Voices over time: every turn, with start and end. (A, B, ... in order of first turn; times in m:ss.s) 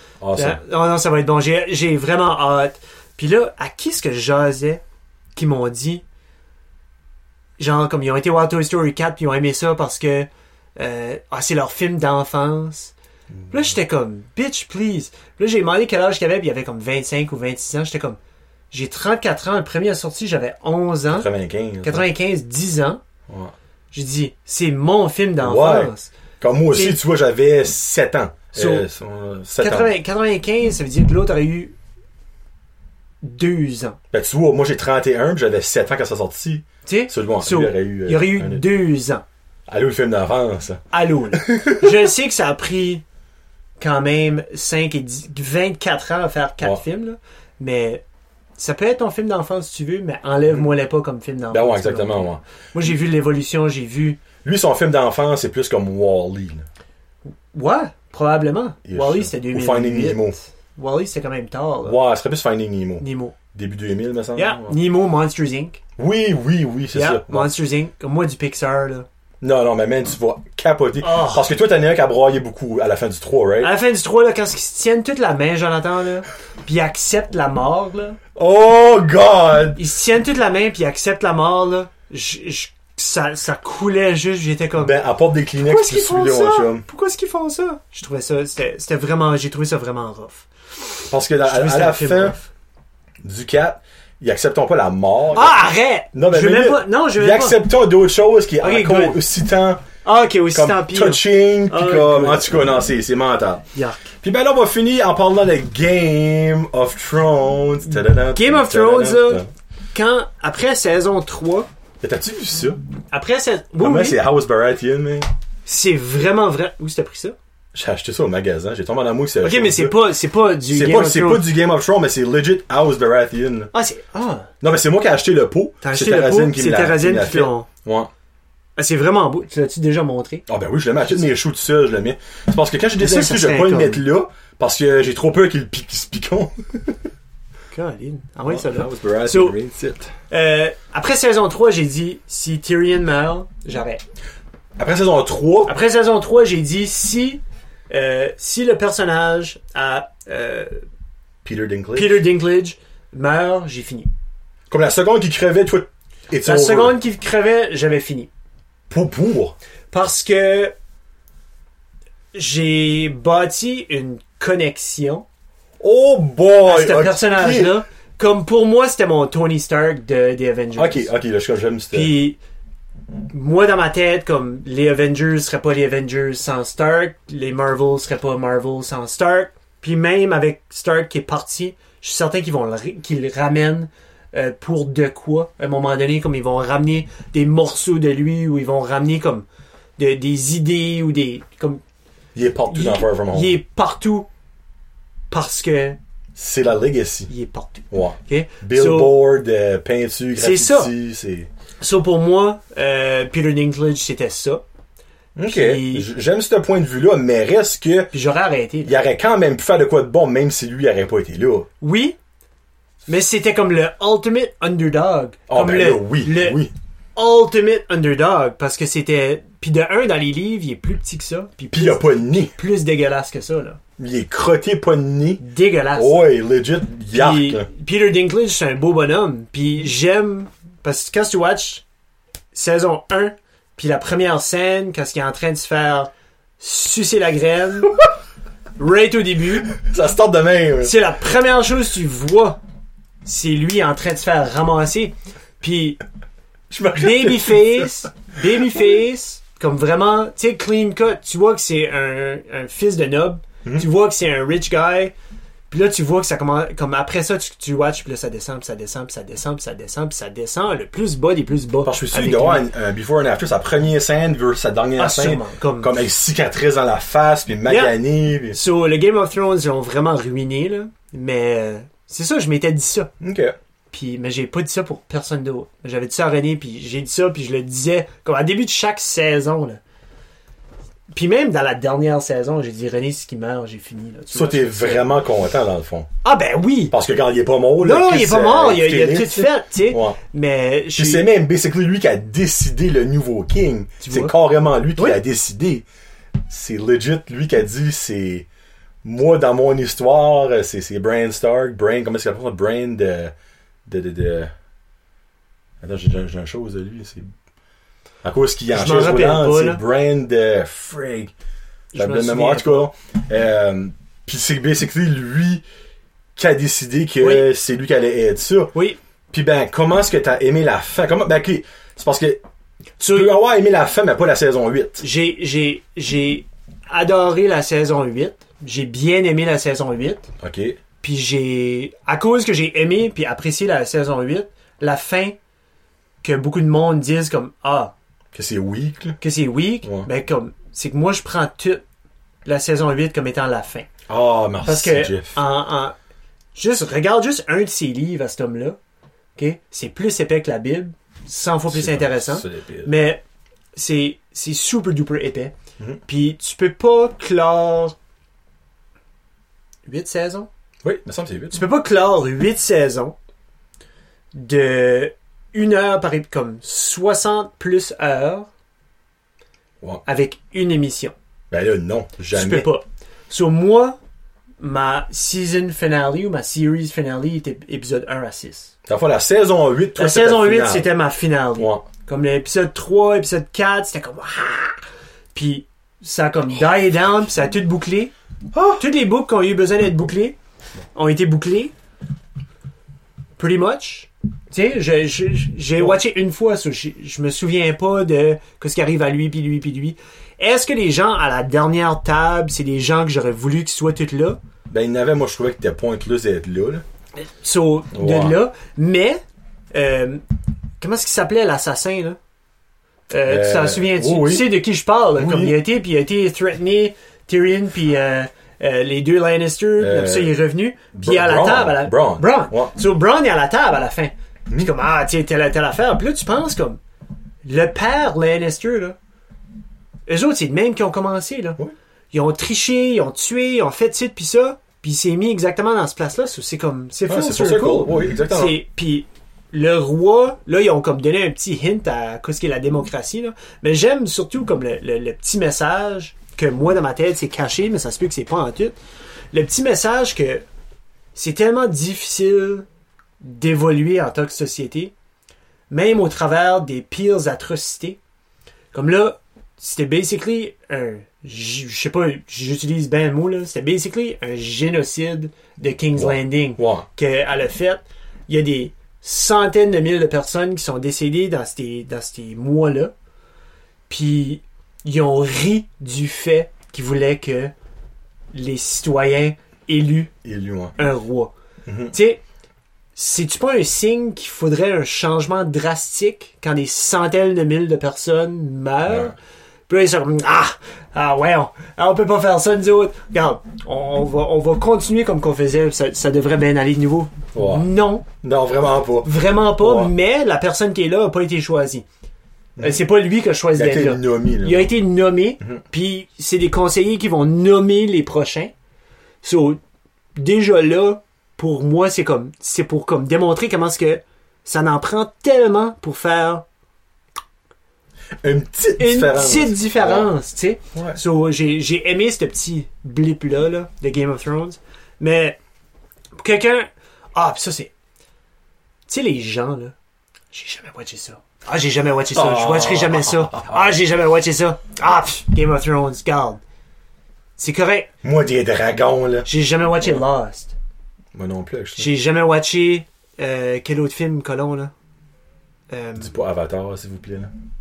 0:00.2-0:00.6 A
0:00.4-0:04.8 B
0:05.3-0:06.0 B
0:07.6-0:12.9 B
0:13.4-0:13.7 A
0:13.5-0:18.2 B
0:18.7-0:21.3 B
0:21.1-0:22.1 A
0:21.8-0:23.0 B
0:23.3-0:23.5 A
0:23.9-0:26.1 B
0:25.4-0:29.9 A
0:26.7-0:27.0 B
0:28.5-0:28.9 B
0:29.6-0:31.7 B
0:33.2-0:34.0 B
0:34.1-0:38.6 A
0:36.8-0:39.2 B
0:39.7-0:42.0 A
0:40.9-0:43.0 B
0:43.8-0:48.0 B
0:48.6-0:54.2 B
0:51.5-0:52.4 A
0:54.4-0:56.7 A
0:57.3-1:02.0 B
0:58.8-1:00.4 A
1:01.8-1:04.8 A
1:03.0-1:03.4 B
1:04.4-1:05.8 B
1:06.0-1:07.5 A
1:06.9-1:09.1 B
1:09.4-1:13.7 A
1:11.0-1:11.4 B
1:13.6-1:18.2 B
1:18.4-1:19.8 A
1:19.8-1:25.0 B
1:24.8-1:26.8 A
1:25.6-1:32.5 B
1:31.1-1:32.4 A
1:33.2-1:35.6 A
1:35.3-1:37.6 B
1:36.1-1:39.8 A
1:38.6-1:39.2 B
1:40.0-1:42.7 B
1:40.5-1:43.6 A
1:43.7-1:44.1 B
1:44.2-1:49.5 A
1:48.2-1:51.7 B
1:52.0-1:52.8 A
1:53.1-1:54.2 B
1:53.8-1:55.3 A
1:55.6-1:57.4 B
1:57.7-2:00.0 A
1:59.4-2:01.4 B
2:00.7-2:03.7 A
2:03.7-2:04.5 B
2:04.6-2:08.1 A
2:05.8-2:07.7 B
2:08.8-2:10.4 B
2:10.5-2:17.0 A
2:13.0-2:14.0 B
2:17.7-2:19.6 B
2:18.4-2:20.1 A
2:20.3-2:24.0 B
2:24.8-2:25.8 A
2:25.6-2:30.8 B
2:31.4-2:32.2 A
2:31.9-2:34.1 B
2:34.7-2:37.0 A
2:36.4-2:38.3 B
2:38.9-2:39.5 A
2:39.9-2:40.7 B
2:42.3-2:45.2 B
2:45.8-2:47.8 A
2:46.6-2:51.1 B
2:50.8-2:52.1 A
2:51.9-2:52.4 B
2:53.3-3:09.4 B
3:10.0-3:11.8 B
3:12.3-3:13.6 A
3:12.7-3:14.3 B
3:15.3-3:16.0 B
3:16.3-3:17.3 A
3:17.3-3:19.2 B
3:17.9-3:21.5 A
3:20.4-3:20.9 B
3:21.8-3:24.6 B
3:25.4-3:28.1 A
3:25.4-3:26.1 B
3:28.1-3:28.9 B
3:28.8-3:31.7 A
3:31.8-3:32.2 B
3:33.1-3:36.6 B
3:35.5-3:36.7 A
3:37.2-3:43.8 B
3:41.7-3:42.5 A
3:44.0-3:45.4 A
3:45.4-3:46.2 B
3:45.9-3:47.7 A
3:47.1-3:51.8 B
3:52.5-3:57.9 B
3:58.8-3:59.7 B
3:59.7-4:01.0 A
4:00.8-4:02.6 B
4:03.2-4:06.0 B
4:06.7-4:08.5 A
4:07.0-4:15.1 B
4:15.7-4:22.6 B
4:21.8-4:28.6 A
4:25.0-4:25.9 B
4:27.7-4:27.9 B
4:28.5-4:33.1 B
4:33.2-4:33.6 A
4:33.9-4:39.8 B
4:41.1-4:45.1 B
4:44.3-4:46.1 A
4:46.2-4:46.9 B
4:46.9-4:50.2 A
4:47.8-4:51.3 B
4:50.9-4:55.8 A
4:54.0-4:54.3 B
4:56.5-4:58.5 A
4:59.0-5:03.3 A
5:03.8-5:04.5 A
5:05.8-5:07.3 A
5:08.2-5:11.3 A
5:08.7-5:09.8 B
5:11.9-5:12.8 B
5:11.9-5:15.6 A
5:16.4-5:18.7 A
5:17.2-5:17.5 B
5:19.3-5:22.4 A
5:23.0-5:23.3 B
5:23.1-5:25.0 A
5:25.0-5:30.3 B
5:30.4-5:30.8 A
5:31.0-5:35.4 B
5:36.2-5:37.9 B
5:38.3-5:39.2 A
5:39.2-5:41.8 B
5:42.4-5:43.9 B
5:44.1-5:45.4 A
5:44.6-5:46.0 B
5:46.5-5:48.8 B
5:49.4-5:53.2 B
5:51.7-5:52.9 A
5:53.7-5:55.5 B
5:56.0-5:58.0 B
5:59.8-6:00.5 B
6:00.8-6:01.6 A
6:01.5-6:03.1 B
6:04.3-6:08.5 B
6:10.0-6:11.1 B
6:11.5-6:12.7 A
6:12.3-6:14.0 B
6:14.6-6:18.7 B
6:18.9-6:20.9 A
6:20.0-6:24.8 B
6:21.6-6:21.8 A
6:25.3-6:28.1 B
6:28.5-6:28.8 A
6:28.8-6:30.4 B
6:30.9-6:31.7 B
6:33.4-6:44.4 B
6:35.8-6:36.0 A
6:44.7-6:46.8 A
6:47.2-6:49.2 B
6:47.9-6:48.4 A
6:49.7-6:50.2 B
6:50.8-6:52.2 B
6:53.1-7:06.8 B
6:53.2-6:54.6 A
6:55.2-6:55.6 A
6:59.8-7:00.4 A
7:00.9-7:02.7 A
7:07.4-7:09.0 B
7:10.1-7:11.6 B
7:12.1-7:28.8 B
7:17.1-7:18.6 A
7:29.3-7:30.4 B
7:31.1-7:32.6 B
7:33.2-7:34.9 B
7:35.7-7:38.0 B
7:38.7-7:52.9 B
7:45.9-7:46.8 A
7:53.9-7:57.5 B
7:58.3-8:00.1 B
8:00.2-8:00.8 A
8:00.8-8:01.3 B
8:01.6-8:01.9 A
8:01.9-8:02.2 B
8:03.0-8:09.1 B
8:08.8-8:09.1 A
8:09.7-8:18.0 B
8:17.3-8:19.9 A
8:19.0-8:21.8 B
8:22.6-8:28.5 B
8:23.5-8:24.7 A
8:29.2-8:29.6 B
8:30.2-8:36.4 B
8:38.2-8:40.1 A
8:38.8-8:45.4 B
8:40.7-8:41.0 A
8:46.2-8:47.7 B
8:48.9-8:49.7 B
8:50.3-8:56.4 B
8:52.1-8:53.8 A
8:57.4-8:57.9 B
8:58.0-8:59.3 A
8:59.2-9:00.5 B
9:01.1-9:01.9 A
9:01.8-9:04.7 B
9:05.7-9:06.1 B
9:06.0-9:07.3 A